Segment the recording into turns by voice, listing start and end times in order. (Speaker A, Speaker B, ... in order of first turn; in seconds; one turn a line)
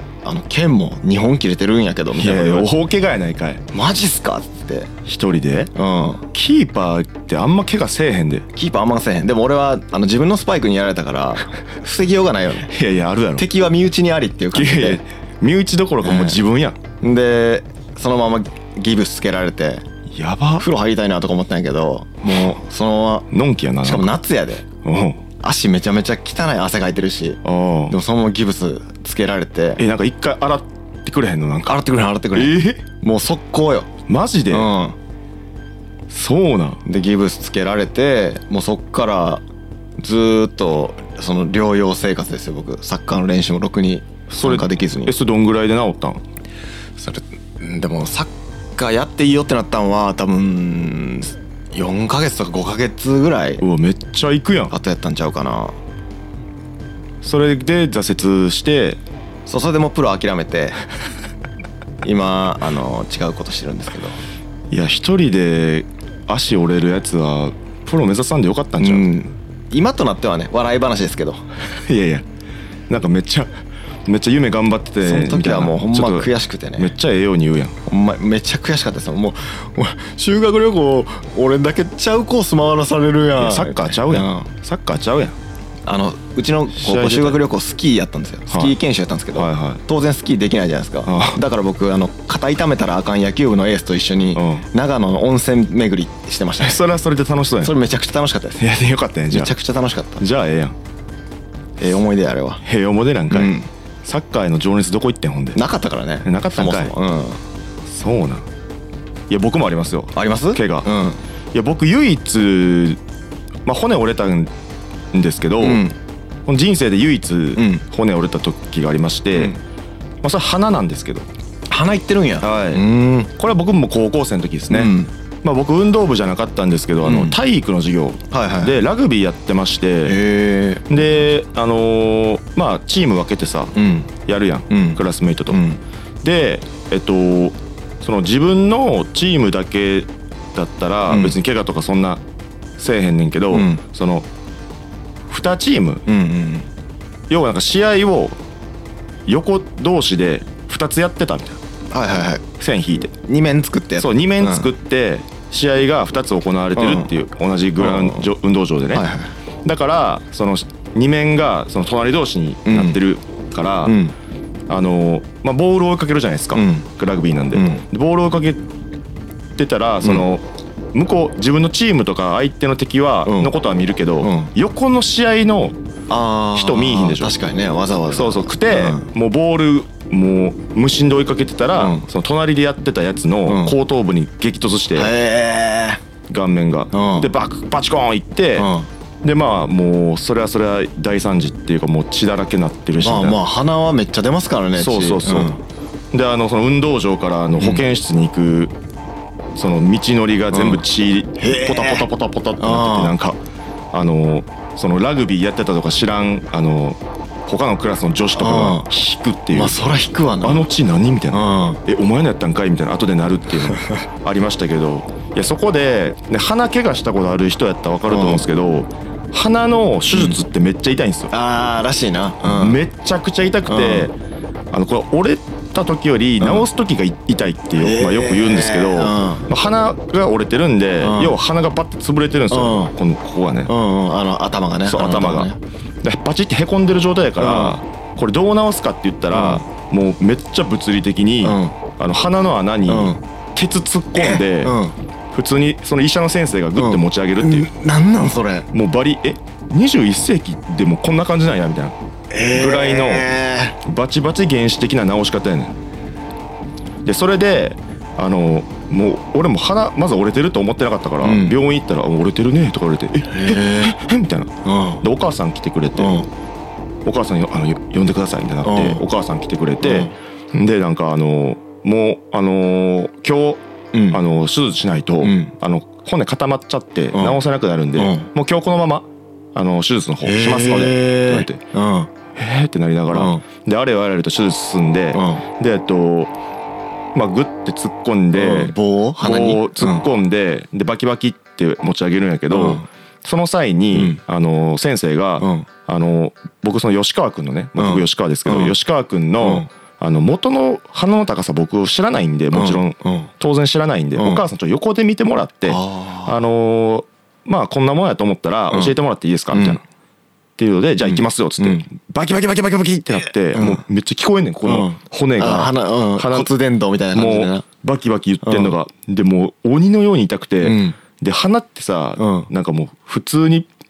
Speaker A: 0.2-2.7
Speaker B: 2.1-3.6
Speaker A: 3.7-4.9
Speaker B: 5.0-5.7
Speaker A: 5.8-6.3
Speaker B: 6.3-8.5
Speaker A: 8.5-12.7
Speaker B: 12.7-13.5
Speaker A: 13.4-15.0
Speaker B: 14.5-16.8
Speaker A: 16.0-16.4
Speaker A: 17.0-19.9
Speaker B: 20.1-20.7
Speaker A: 20.6-23.3
Speaker B: 23.3-24.1
Speaker A: 23.8-24.7
Speaker B: 24.8-25.2
Speaker A: 25.4-29.8
Speaker B: 27.4-27.9
Speaker B: 29.8-31.8
Speaker A: 31.7-33.9
Speaker B: 32.4-32.8
Speaker B: 34.1-34.7
Speaker A: 34.5-35.0
Speaker B: 36.1-36.8
Speaker A: 36.9-39.4
Speaker A: 40.0-45.1
Speaker B: 44.3-46.2
Speaker A: 47.0-53.6
Speaker B: 53.6-54.7
Speaker A: 54.7-55.8
Speaker B: 57.2-59.0
Speaker A: 59.5-60.8
Speaker A: 62.0-64.2
Speaker B: 64.7-69.1
Speaker A: 68.8-71.5
Speaker B: 71.8-72.3
Speaker B: 72.9-73.5
Speaker B: 74.1-77.8
Speaker A: 75.0-76.9
Speaker A: 77.9-84.5
Speaker B: 83.4-85.3
Speaker A: 85.8-96.8
Speaker B: 86.8-87.4
Speaker B: 88.5-88.8
Speaker B: 89.3-89.8
Speaker B: 91.1-91.4
Speaker B: 94.3-94.7
Speaker B: 96.6-97.8
Speaker A: 97.6-98.6
Speaker B: 98.6-99.5
Speaker A: 99.3-100.2
Speaker B: 100.2-100.8
Speaker A: 101.8-102.6
Speaker B: 102.6-105.6
Speaker A: 103.3-103.7
Speaker A: 105.5-107.4
Speaker B: 106.2-107.0
Speaker B: 107.9-108.5
Speaker B: 109.3-110.9
Speaker A: 110.2-111.2
Speaker B: 111.5-113.0
Speaker B: 113.7-114.5
Speaker B: 115.1-115.8
Speaker A: 115.6-116.0
Speaker B: 116.5-119.6
Speaker A: 117.6-117.8
Speaker B: 120.2-121.3
Speaker A: 121.7-123.3
Speaker B: 122.4-122.8
Speaker B: 123.4-124.9
Speaker A: 124.7-125.1
Speaker B: 125.4-130.2
Speaker A: 127.0-127.4
Speaker A: 128.3-128.8
Speaker A: 130.1-130.9
Speaker B: 130.9-135.6
Speaker A: 133.8-134.1
Speaker A: 134.7-135.8
Speaker B: 136.2-142.2
Speaker A: 141.1-141.4
Speaker B: 142.8-144.3
Speaker A: 143.5-143.8
Speaker B: 145.3-146.0
Speaker A: 146.1-146.7
Speaker B: 147.3-148.4
Speaker B: 149.3-151.6
Speaker A: 151.9-152.4
Speaker B: 152.6-153.1
Speaker A: 153.2-154.7
Speaker B: 154.0-159.1
Speaker A: 156.8-157.1
Speaker A: 157.8-158.3
Speaker A: 158.9-159.3
Speaker B: 159.7-164.0
Speaker A: 162.7-163.0
Speaker A: 163.9-164.2
Speaker B: 164.7-168.6
Speaker A: 166.6-166.9
Speaker A: 167.5-167.8
Speaker B: 169.6-175.8
Speaker A: 173.2-173.5
Speaker A: 174.2-174.5
Speaker A: 176.1-179.1
Speaker B: 176.6-177.3
Speaker B: 178.1-185.1
Speaker A: 181.8-182.1
Speaker A: 183.5-183.8
Speaker A: 184.9-186.0
Speaker B: 186.3-188.7
Speaker A: 186.9-187.3
Speaker A: 188.6-188.9
Speaker B: 189.2-193.4
Speaker A: 193.0-195.6
Speaker B: 194.8-195.5
Speaker B: 196.1-198.7
Speaker A: 197.6-197.8
Speaker B: 199.6-203.4
Speaker A: 200.5-200.8
Speaker A: 201.4-202.1
Speaker A: 202.6-203.2
Speaker B: 203.9-209.8
Speaker A: 208.3-208.9
Speaker A: 209.5-210.7
Speaker B: 210.4-221.3
Speaker A: 211.3-211.8
Speaker A: 218.1-218.4
Speaker A: 220.1-220.4
Speaker A: 221.3-222.8
Speaker B: 222.4-224.1
Speaker A: 223.7-224.1
Speaker B: 224.7-233.7
Speaker A: 226.4-226.7
Speaker A: 227.8-229.5
Speaker A: 231.0-231.4
Speaker A: 232.5-232.9
Speaker A: 233.7-235.6
Speaker B: 234.9-235.5
Speaker B: 236.0-244.8
Speaker A: 237.4-237.8
Speaker A: 239.3-239.6
Speaker A: 241.4-241.8
Speaker A: 242.9-243.2
Speaker A: 244.2-245.0
Speaker B: 245.3-247.7
Speaker A: 246.8-248.7
Speaker B: 248.7-252.0
Speaker A: 252.3-253.8
Speaker B: 252.5-253.3
Speaker B: 253.8-255.7
Speaker B: 257.1-266.2
Speaker A: 261.2-261.6
Speaker A: 263.3-264.0
Speaker A: 264.6-265.1
Speaker A: 266.0-266.3
Speaker B: 267.1-281.6
Speaker A: 268.6-269.0
Speaker A: 269.8-270.1
Speaker A: 273.9-274.2
Speaker A: 275.2-275.5
Speaker A: 277.1-277.4
Speaker A: 278.0-278.3
Speaker A: 280.2-282.1
Speaker B: 282.4-286.3
Speaker A: 283.1-283.4
Speaker A: 285.1-285.4
Speaker B: 287.1-309.8
Speaker A: 288.3-290.1
Speaker A: 292.5-292.9
Speaker A: 293.9-294.2
Speaker A: 295.4-295.7
Speaker A: 297.8-298.8
Speaker A: 299.4-299.7
Speaker A: 302.5-303.3
Speaker A: 304.2-304.4
Speaker A: 305.7-306.4
Speaker A: 309.5-309.8
Speaker B: 310.6-316.5
Speaker A: 311.0-311.9
Speaker A: 313.6-313.8
Speaker A: 314.7-317.6
Speaker B: 317.1-323.7
Speaker A: 318.4-318.7
Speaker A: 320.6-321.0
Speaker A: 322.2-322.5